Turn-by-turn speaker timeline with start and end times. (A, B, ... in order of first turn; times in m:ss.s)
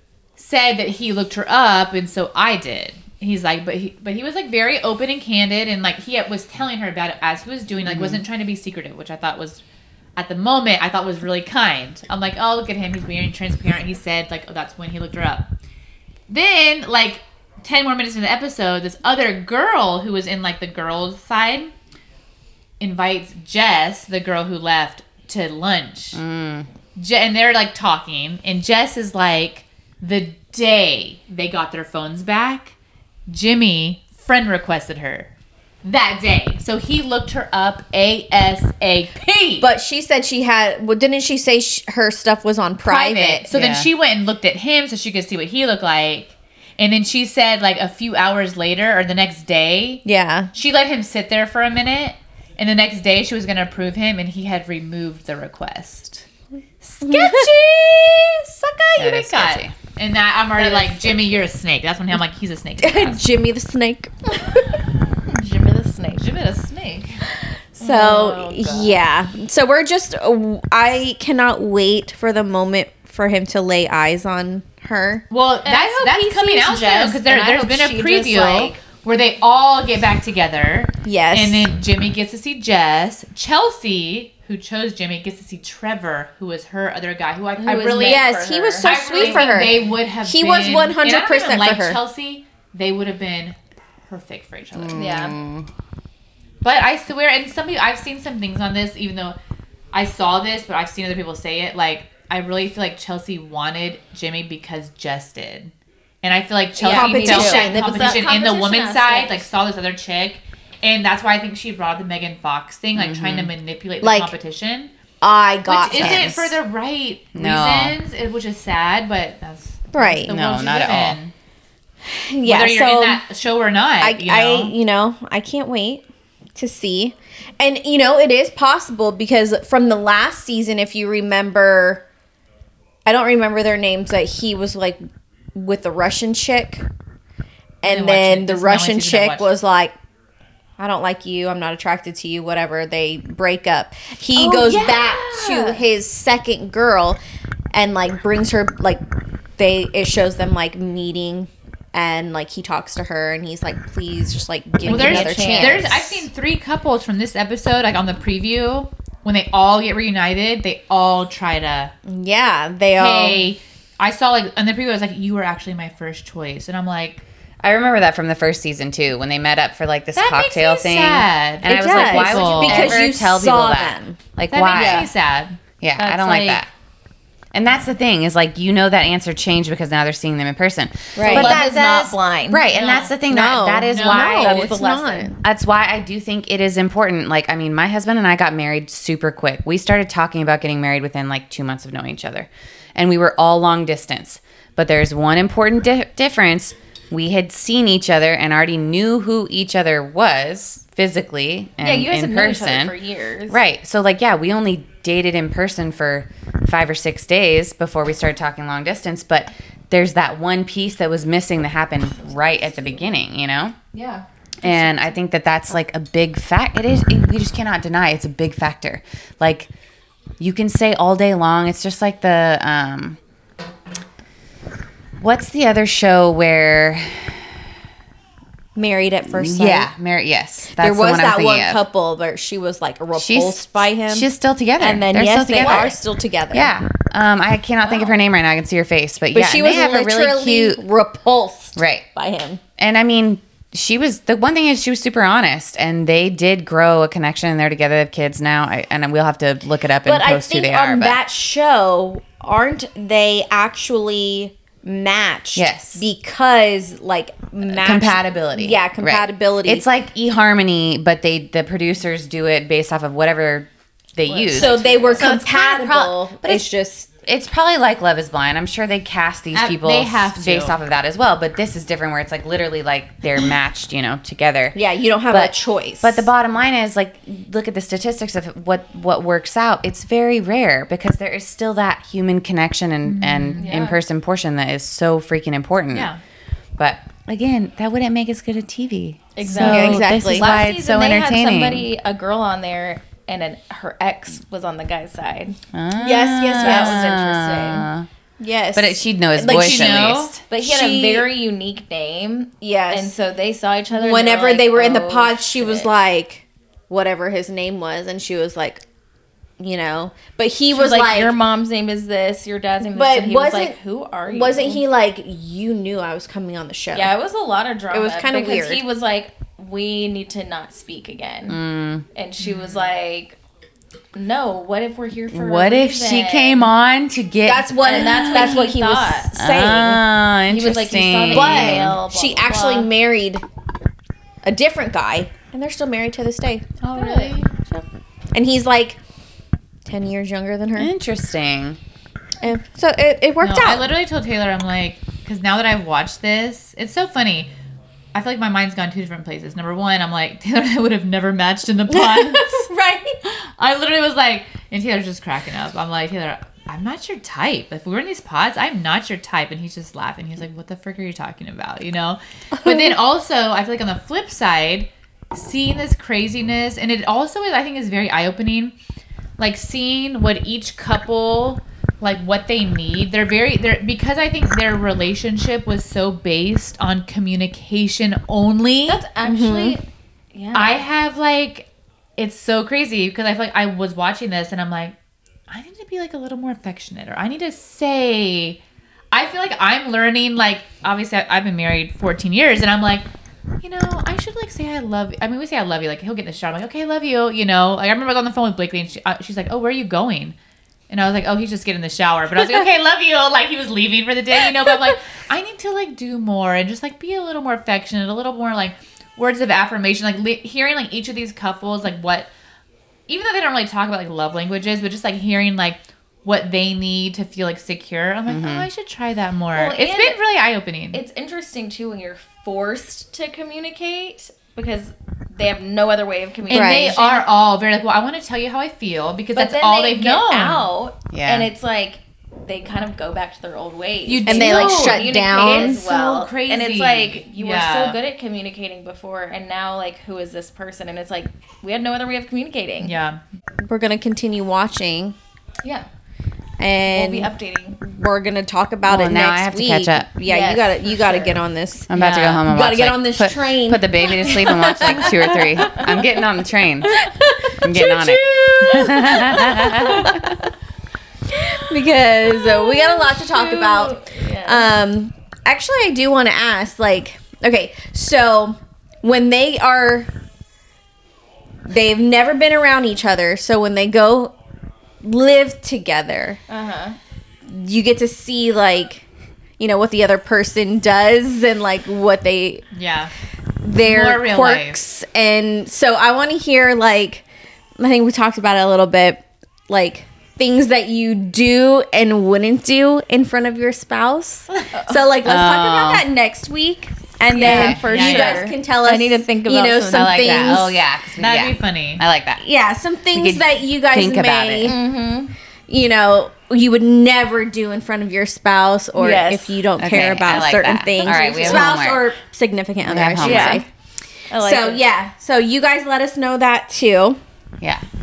0:00.4-0:09.6 A
0:07.8-0:08.2 B
0:10.2-0:15.5 A
0:16.3-0:21.7 A
0:22.8-0:26.2 A
0:26.1-0:26.7 B
0:27.0-0:32.7 A
0:33.3-0:35.3 A
0:35.8-0:39.7 A
0:39.6-0:43.4 C
0:42.8-0:56.2 A
0:43.5-0:43.9 B
0:50.0-0:50.5 C
0:56.8-1:03.2 A
0:57.0-0:57.5 C
0:59.0-0:59.7 B
1:00.6-1:01.0 D
1:02.8-1:04.8 C
1:05.2-1:06.3 D
1:06.2-1:07.2 A
1:07.8-1:15.2 C
1:07.8-1:09.0 D
1:15.3-1:33.6 A
1:15.6-1:18.8 D
1:21.0-1:21.7 C
1:27.6-1:29.9 D
1:27.9-1:32.0 C
1:34.1-1:35.3 A
1:34.9-1:35.4 D
1:35.0-1:35.6 C
1:36.6-1:39.4 A
1:39.9-1:45.7 A
1:46.2-1:54.9 A
1:46.8-1:49.4 D
1:46.8-1:48.2 C
1:52.9-1:53.5 B
1:54.0-1:54.3 C
1:55.2-1:56.5 C
1:55.6-2:01.3 A
1:55.9-1:56.5 B
1:57.3-1:58.0 B
1:59.9-2:00.3 C
2:00.3-2:01.2 B
2:02.1-2:03.2 C
2:02.4-2:04.7 A
2:04.0-2:06.0 C
2:06.6-2:12.0 C
2:13.0-2:15.0 C
2:15.5-2:16.8 C
2:17.8-2:20.0 C
2:17.8-2:19.5 A
2:20.8-2:27.2 C
2:24.4-2:25.8 D
2:27.7-2:29.0 C
2:29.6-2:36.3 C
2:34.8-2:35.9 D
2:34.8-2:41.9 A
2:42.1-2:43.4 C
2:43.0-2:47.2 A
2:47.6-2:55.1 B
2:50.1-2:53.0 A
2:51.6-2:54.2 C
2:54.5-2:56.6 A
2:54.7-2:55.1 D
2:55.8-2:56.7 B
2:57.5-3:01.6 B
3:01.2-3:01.6 C
3:01.2-3:02.6 D
3:01.2-3:02.2 A
3:02.5-3:04.8 B
3:02.7-3:03.2 A
3:03.3-3:05.4 C
3:03.9-3:04.5 A
3:04.1-3:05.3 D
3:05.4-3:22.9 B
3:21.8-3:23.6 D
3:23.5-3:33.8 B
3:33.9-3:35.1 D
3:34.6-3:39.7 B
3:40.4-3:43.2 B
3:45.2-3:47.4 B
3:48.8-3:49.9 C
3:49.3-3:51.8 B
3:50.8-3:54.3 C
3:53.1-3:55.9 B
3:54.8-3:56.7 C
3:56.5-4:00.8 B
3:59.3-4:02.6 C
4:01.8-4:02.0 B
4:02.8-4:11.2 B
4:10.0-4:19.8 C
4:15.5-4:16.0 B
4:17.7-4:26.7 B
4:24.2-4:25.3 D
4:24.5-4:27.1 C
4:27.2-4:34.8 B
4:29.5-4:30.8 A
4:34.7-4:36.3 C
4:35.3-4:46.1 B
4:43.0-4:43.7 A
4:43.6-4:44.0 D
4:45.9-4:46.2 A
4:46.8-4:51.9 B
4:49.3-4:57.8 D
4:49.6-4:50.6 C
4:55.7-4:58.1 B
4:56.4-4:57.1 C
4:58.4-5:01.3 C
4:58.7-5:00.4 B
4:59.5-5:00.3 A
5:00.5-5:05.9 D
5:02.6-5:03.1 C
5:03.9-5:08.8 C
5:09.6-5:11.4 C
5:10.7-5:14.8 D
5:12.9-5:13.8 C
5:14.3-5:17.1 C
5:16.9-5:21.6 D
5:17.9-5:18.8 C
5:21.5-5:22.0 B
5:22.1-5:23.4 D
5:22.4-5:22.8 A
5:24.1-5:26.7 D
5:25.3-5:28.7 B
5:27.4-5:30.0 C
5:27.8-5:29.3 D
5:29.3-5:32.0 B
5:30.5-5:32.9 D
5:31.3-5:33.4 C
5:34.4-5:36.8 C
5:36.8-5:37.8 D
5:36.8-5:37.4 A
5:38.3-5:39.0 C
5:39.8-5:40.9 C
5:40.8-5:41.8 B
5:42.4-5:43.8 C
5:43.4-5:47.5 A
5:48.1-5:52.7 A
5:51.9-5:53.2 C
5:53.2-6:08.7 A
6:02.6-6:02.8 C
6:09.4-6:19.0 A
6:18.9-6:20.8 D
6:19.2-6:19.8 C
6:20.5-6:24.9 A
6:25.5-6:28.6 A
6:29.1-6:33.1 A
6:33.6-6:40.4 A
6:40.9-6:52.3 A
6:53.1-7:01.0 A
6:58.3-6:58.7 B
6:59.5-7:00.2 D
7:00.9-7:07.3 D
7:06.5-7:10.7 A
7:06.5-7:07.0 C
7:09.3-7:22.9 D
7:11.1-7:11.5 B
7:14.0-7:18.0 A
7:14.2-7:15.8 C
7:22.8-7:23.2 A
7:23.6-7:25.2 C
7:26.6-7:31.9 C
7:26.8-7:27.8 D
7:28.8-7:30.1 B
7:30.2-7:31.4 D
7:31.9-7:37.0 B
7:31.9-7:32.4 A
7:32.4-7:35.7 C
7:34.3-7:36.2 D
7:36.8-7:40.4 D
7:37.5-7:39.4 C
7:37.6-7:40.1 B
7:41.3-7:50.1 C
7:42.2-7:44.7 D
7:51.6-7:54.3 C
7:55.0-7:56.4 C
7:56.5-7:57.0 D
7:57.4-7:59.0 C
7:59.6-8:02.6 C
8:02.7-8:03.1 A
8:03.6-8:07.2 C
8:03.8-8:04.8 A
8:07.8-8:20.8 C
8:14.7-8:15.1 D
8:15.2-8:16.0 B
8:17.3-8:20.7 D
8:17.4-8:18.5 A
8:17.4-8:17.8 B
8:19.9-8:22.4 B
8:21.1-8:22.0 A
8:22.4-8:24.9 C
8:23.1-8:24.7 B
8:24.6-8:25.3 D
8:25.7-8:33.7 C
8:28.9-8:29.6 D
8:29.8-8:32.1 B
8:31.0-8:31.8 D
8:32.8-8:33.6 B
8:33.2-8:33.6 D
8:34.3-8:34.8 D
8:34.3-8:37.2 C